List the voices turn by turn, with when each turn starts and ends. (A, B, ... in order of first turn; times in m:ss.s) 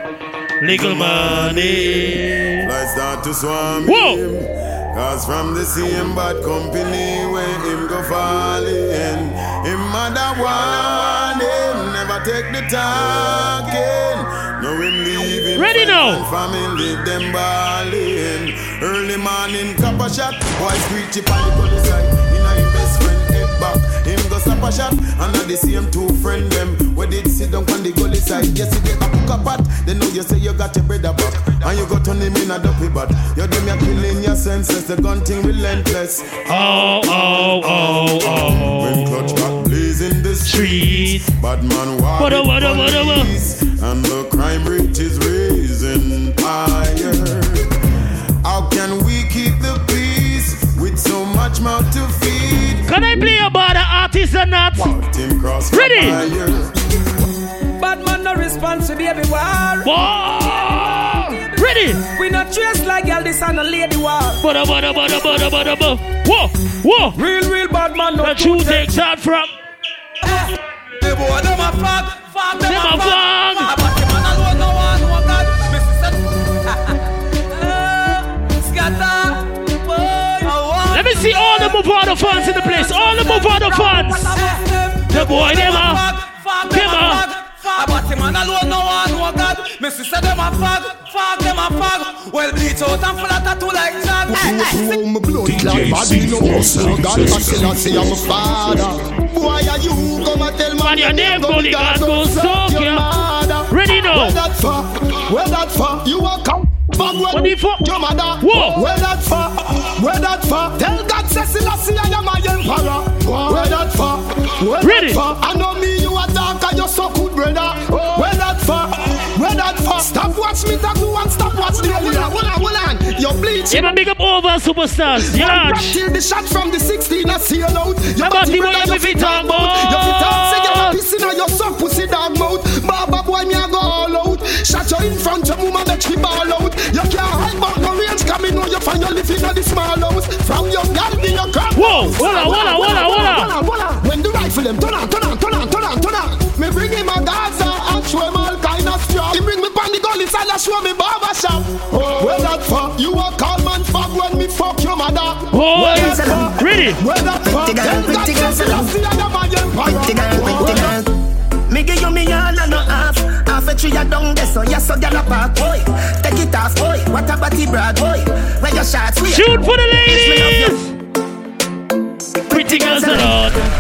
0:00.6-0:02.7 A
0:00.6-0:02.0 B
0:02.6-0:47.6 B
0:03.8-0:04.2 A
0:15.5-0:16.2 A
0:36.5-0:39.6 A
0:40.4-0:41.3 A
0:42.2-0:43.3 A
0:48.4-0:52.9 B
0:52.9-0:55.0 A
0:54.9-0:56.8 B
0:55.7-0:56.2 A
0:57.8-0:59.9 C
0:59.8-1:02.0 A
1:02.1-1:04.4 C
1:04.4-1:07.2 A
1:07.1-1:08.9 C
1:08.2-1:09.5 A
1:11.0-1:16.1 C
1:12.6-1:13.8 A
1:17.5-1:21.3 C
1:20.9-1:24.3 A
1:22.6-1:34.5 C
1:25.1-1:26.0 A
1:26.7-1:27.2 A
1:34.3-2:03.8 D
1:40.8-1:43.1 A
1:43.7-1:44.4 A
1:47.3-1:48.8 A
1:54.8-1:55.2 A
2:01.9-2:02.3 E
2:03.7-2:06.0 A
2:05.2-2:41.0 D
2:08.2-2:11.0 A
2:21.8-2:23.5 A
2:22.2-2:23.4 E
2:35.5-2:37.0 A
2:35.8-2:38.9 E
2:39.8-2:41.1 E
2:41.7-2:50.7 E
2:49.3-2:50.9 A
2:52.5-2:53.5 E
2:52.5-2:53.6 A